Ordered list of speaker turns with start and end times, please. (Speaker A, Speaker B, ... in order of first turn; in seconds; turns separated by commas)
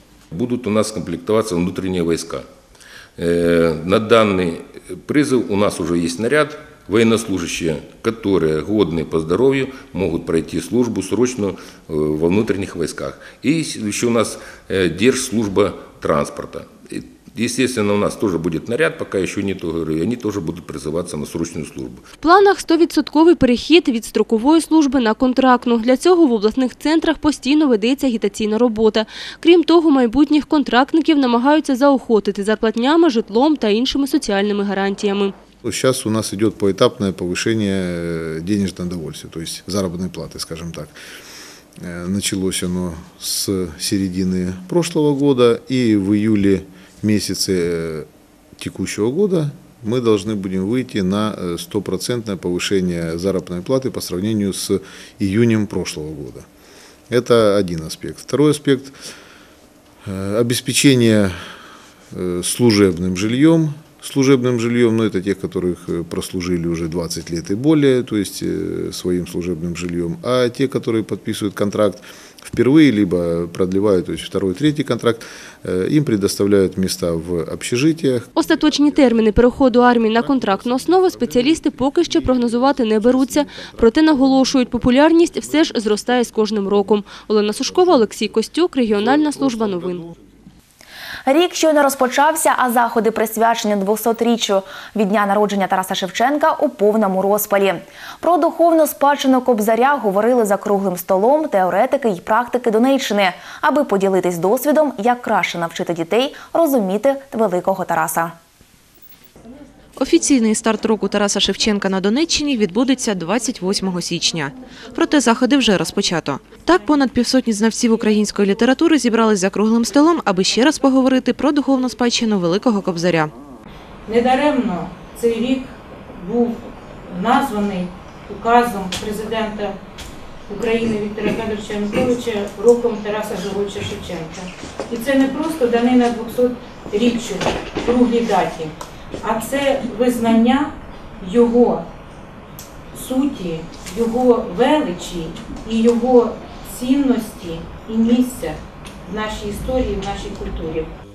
Speaker A: 0.3-2.4, Speaker A: 3.2-22.0, Speaker B: 22.2-35.3, Speaker C: 35.6-41.0, Speaker C: 41.8-48.1, Speaker C: 48.6-56.4, Speaker C: 57.1-59.0, Speaker C: 60.1-61.4, Speaker C: 62.1-78.3, Speaker B: 78.3-90.1, Speaker D: 91.3-108.3, Speaker E: 110.0-123.3, Speaker F: 124.1-129.8, Speaker F: 130.5-141.8, Speaker F: 142.9-150.9